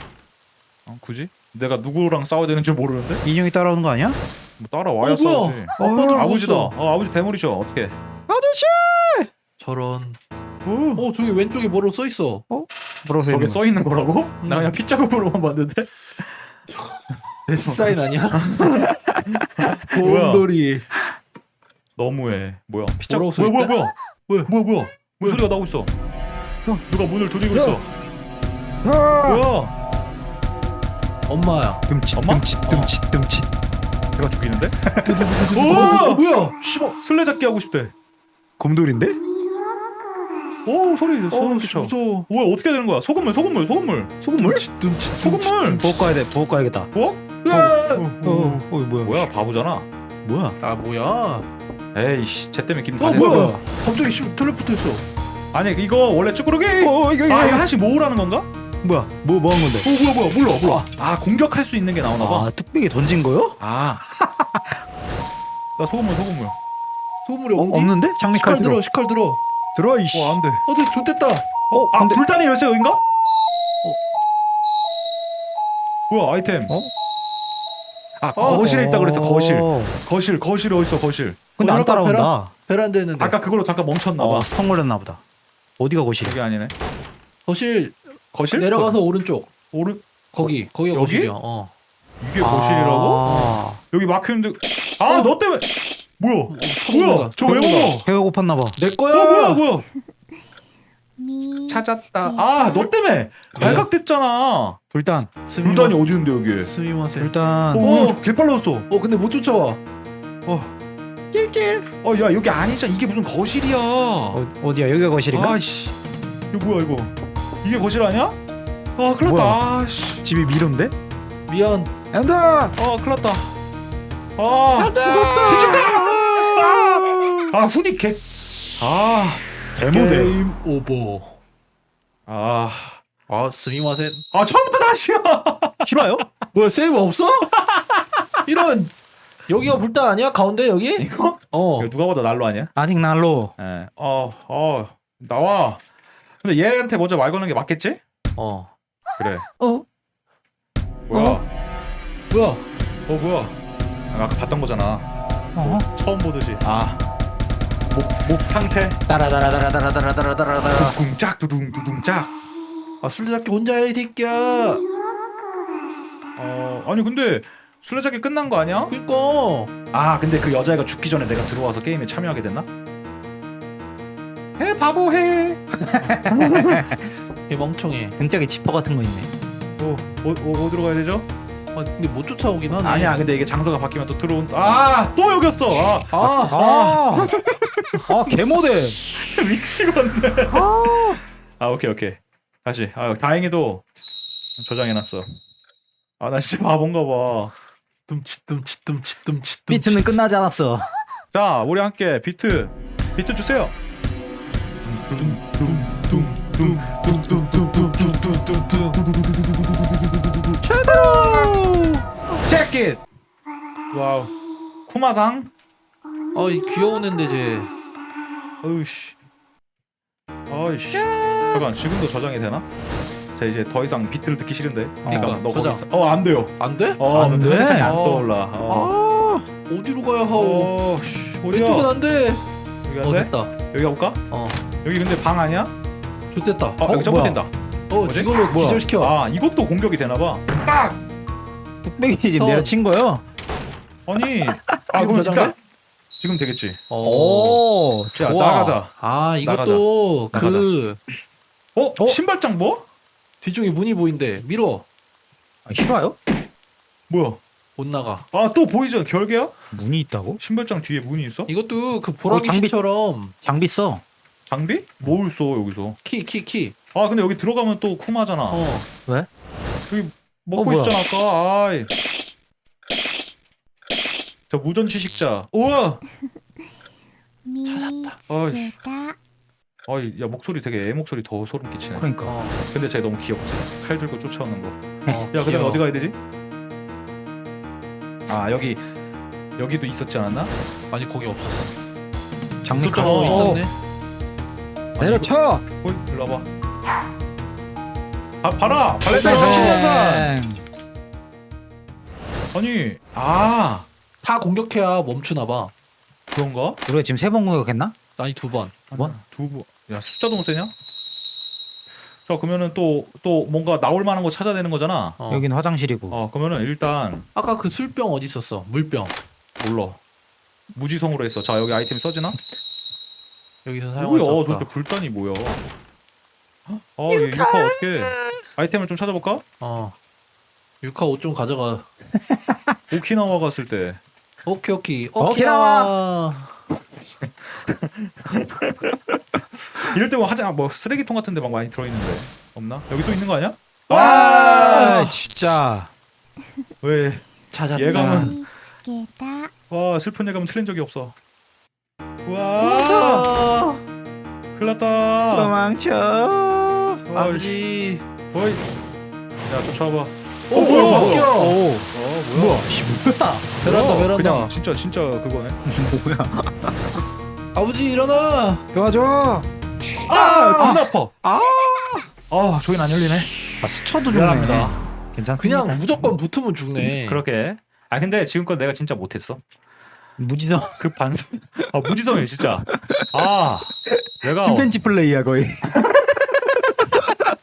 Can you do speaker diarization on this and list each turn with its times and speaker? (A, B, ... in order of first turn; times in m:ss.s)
0:00.8-0:03.2 A
0:03.2-0:04.2 B
0:04.6-0:08.0 A
0:05.0-0:06.7 C
0:05.8-0:06.3 B
0:08.3-0:09.3 B
0:09.6-0:10.2 C
0:10.6-0:11.1 A
0:11.0-0:12.4 C
0:12.5-0:13.6 B
0:13.3-0:16.6 A
0:14.4-0:14.7 C
0:17.5-0:18.6 C
0:18.4-0:20.5 A
0:19.7-0:20.9 C
0:22.0-0:23.9 A
0:23.0-0:24.5 C
0:24.5-0:25.9 A
0:26.9-0:27.8 A
0:27.5-0:27.8 B
0:28.8-0:29.4 B
0:29.2-0:29.7 A
0:31.3-0:31.8 C
0:31.9-0:33.5 B
0:32.1-0:32.9 A
0:34.2-0:34.8 A
0:34.8-0:36.1 B
0:35.0-0:37.0 C
0:35.5-0:36.2 A
0:37.0-0:37.9 A
0:38.6-0:39.2 B
0:40.6-0:44.2 A
0:41.3-0:42.3 C
0:44.2-0:44.6 B
0:44.3-0:46.0 C
0:45.2-0:46.0 A
0:45.6-0:46.9 B
0:46.9-0:49.8 A
0:47.4-0:48.1 C
0:47.5-0:49.3 B
0:50.2-0:50.6 B
0:50.6-0:51.5 C
0:51.9-0:53.5 A
0:53.0-0:55.0 C
0:53.1-0:53.6 B
0:55.5-0:58.4 A
0:56.8-0:57.6 B
0:58.8-0:59.9 B
0:59.8-1:02.5 A
1:02.2-1:04.8 B
1:03.6-1:04.0 A
1:05.8-1:06.6 A
1:07.2-1:09.4 C
1:07.6-1:08.8 B
1:09.7-1:10.4 B
1:10.1-1:10.6 A
1:10.6-1:11.4 C
1:11.7-1:12.2 B
1:11.9-1:13.0 A
1:16.1-1:16.7 A
1:18.2-1:21.4 A
1:18.4-1:18.6 C
1:18.4-1:20.0 B
1:21.6-1:22.5 B
1:21.6-1:23.4 C
1:23.2-1:24.5 A
1:24.2-1:25.2 B
1:25.8-1:26.4 B
1:26.2-1:26.7 A
1:27.5-1:29.5 C
1:28.3-1:29.0 A
1:29.7-1:31.3 A
1:30.3-1:31.7 C
1:32.2-1:33.2 A
1:32.4-1:33.8 B
1:33.2-1:33.6 C
1:33.8-1:35.6 A
1:36.2-1:38.1 A
1:36.5-1:37.9 C
1:38.0-1:38.8 B
1:38.8-1:39.6 C
1:39.1-1:39.8 A
1:41.2-1:42.9 D
1:41.7-1:44.8 A
1:43.6-1:43.8 B
1:43.6-1:43.8 C
1:44.9-1:45.3 B
1:45.5-1:46.0 C
1:45.6-1:46.7 A
1:46.6-1:48.2 C
1:47.2-1:48.1 B
1:47.7-1:48.9 A
1:48.9-1:49.8 C
1:51.3-1:51.9 B
1:52.0-1:54.4 A
1:54.3-1:55.6 B
1:55.3-1:55.9 A
1:56.5-1:57.1 A
1:57.6-1:58.4 A
1:59.0-2:00.2 A
1:59.2-1:59.6 B
2:00.2-2:00.9 B
2:01.5-2:01.9 C
2:02.1-2:02.7 B
2:02.8-2:03.5 A
2:04.4-2:09.4 A
2:04.8-2:06.0 C
2:09.8-2:10.4 B
2:09.9-2:11.4 C
2:12.3-2:13.0 A
2:13.3-2:14.2 C
2:14.3-2:16.1 A
2:15.8-2:16.3 B
2:16.5-2:17.5 C
2:17.6-2:18.0 A
2:18.4-2:18.9 C
2:19.5-2:21.9 C
2:21.0-2:22.7 A
2:22.8-2:23.5 B
2:23.6-2:25.8 A
2:26.4-2:28.0 A
2:28.4-2:28.7 C
2:29.2-2:29.5 A
2:29.6-2:29.8 B
2:31.1-2:31.4 A
2:31.1-2:31.4 B
2:32.3-2:32.6 C
2:33.1-2:33.6 A
2:34.1-2:35.0 A
2:35.6-2:35.8 B
2:35.6-2:37.0 A
2:37.9-2:39.0 A
2:39.1-2:41.0 B
2:40.7-2:42.3 A
2:43.0-2:44.8 C
2:46.4-2:48.9 A
2:48.9-2:49.7 C
2:49.9-2:52.7 A
2:54.6-2:55.7 A
2:55.8-2:57.1 B
2:56.2-2:56.9 A
2:57.5-2:58.2 C
2:58.2-2:59.3 B
2:59.8-3:01.2 A
3:01.7-3:03.2 C
3:02.8-3:08.1 A
3:06.1-3:06.6 C
3:06.5-3:07.4 B
3:08.0-3:09.0 B
3:09.2-3:13.8 A
3:10.5-3:11.2 B
3:14.6-3:15.3 A
3:16.2-3:17.5 A
3:18.1-3:20.1 C
3:19.7-3:20.9 B
3:21.3-3:23.7 A
3:24.8-3:30.6 A
3:25.2-3:29.0 C
3:30.6-3:32.0 C
3:31.0-3:31.5 B
3:32.4-3:33.0 A
3:33.9-3:34.3 A
3:34.9-3:35.5 A
3:36.3-3:37.7 C
3:38.6-3:39.1 A
3:40.5-3:42.6 A
3:40.9-3:41.7 C
3:43.4-3:48.9 A
3:45.0-3:45.4 B
3:45.1-3:45.8 C
3:46.6-3:47.0 C
3:47.1-3:47.9 B
3:47.8-3:48.3 C
3:48.7-3:49.4 B
3:49.7-3:50.7 C
3:50.4-3:51.9 A
3:51.5-3:52.4 C
3:52.9-3:54.2 A
3:53.0-3:53.5 C
3:54.3-3:54.6 C
3:54.8-3:55.7 A
3:56.3-3:56.8 C
3:56.8-3:57.5 A
3:56.8-3:57.4 B
3:57.9-3:59.1 C
3:58.0-4:01.0 A
4:01.8-4:03.2 B
4:02.4-4:02.7 C
4:04.1-4:05.6 A
4:04.5-4:04.8 B
4:04.9-4:05.5 C
4:06.2-4:06.8 A
4:06.9-4:07.6 C
4:07.0-4:08.8 B
4:08.1-4:10.7 A
4:09.0-4:11.0 C
4:11.7-4:12.8 A
4:13.4-4:14.8 C
4:15.6-4:16.2 B
4:17.1-4:17.4 A
4:17.8-4:18.2 C
4:18.3-4:19.6 A
4:19.7-4:20.4 B
4:20.4-4:21.5 A
4:21.5-4:23.3 C
4:22.3-4:22.7 B
4:23.4-4:24.0 B
4:24.5-4:26.0 A
4:26.0-4:26.7 C
4:26.9-4:28.6 A
4:28.5-4:28.9 C
4:29.9-4:31.9 A
4:30.6-4:31.0 B
4:34.5-4:36.0 A
4:37.4-4:39.2 D
4:37.7-4:38.1 C
4:38.3-4:38.7 A
4:39.9-4:42.1 A
4:42.0-4:42.3 B
4:42.2-4:42.6 C
4:42.6-4:44.8 A
4:45.1-4:45.8 C
4:45.3-4:46.1 A
4:48.3-4:48.9 A
4:49.6-4:50.5 A
4:50.9-4:51.7 C
4:52.6-4:53.6 B
4:52.7-4:53.6 A
4:52.9-4:53.7 C
4:55.0-4:55.3 A
4:55.0-4:55.6 B
4:55.8-4:56.5 A
4:58.4-5:00.3 A
4:59.1-4:59.8 C
4:59.1-5:00.6 B
5:02.5-5:03.8 A
5:04.2-5:05.7 C
5:06.3-5:06.8 A
5:06.9-5:07.9 B
5:08.2-5:08.8 C
5:08.9-5:10.7 A
5:12.3-5:15.2 A
5:15.2-5:15.4 C
5:15.3-5:16.2 B
5:16.1-5:17.3 A
5:17.3-5:19.1 C
5:19.6-5:20.0 A
5:20.7-5:22.4 A
5:23.6-5:24.7 C
5:24.0-5:25.6 A
5:26.7-5:29.4 A
5:27.1-5:28.3 B
5:29.6-5:30.0 C
5:30.8-5:31.9 C
5:32.3-5:32.8 B
5:32.9-5:34.0 A
5:34.4-5:36.5 C
5:35.2-5:35.9 B
5:37.2-5:45.1 A
5:43.9-5:45.1 C
5:43.9-5:45.9 B
5:46.8-5:47.2 A
5:47.5-5:48.4 C
5:47.8-5:48.4 A
5:47.9-5:48.3 B
5:48.1-5:49.5 D
5:49.7-5:51.1 A
5:52.2-5:53.3 A
5:52.6-5:53.8 C
5:54.5-5:55.5 A
5:55.3-5:57.1 B
5:57.1-5:57.6 A
5:57.1-5:58.0 C
5:58.3-5:58.6 A
5:59.4-6:01.3 A
6:00.5-6:01.6 C
6:00.6-6:03.5 B
6:01.9-6:02.7 A
6:03.6-6:04.5 C
6:03.6-6:05.6 A
6:05.6-6:06.9 B
6:07.5-6:08.6 C
6:08.7-6:09.5 B
6:10.1-6:11.1 A
6:10.1-6:12.1 B
6:12.3-6:13.3 A
6:13.6-6:15.9 B
6:14.1-6:14.8 A
6:15.4-6:17.2 C
6:17.0-6:19.4 A
6:20.2-6:20.8 B
6:20.8-6:24.7 A
6:24.4-6:25.8 B
6:25.7-6:26.3 A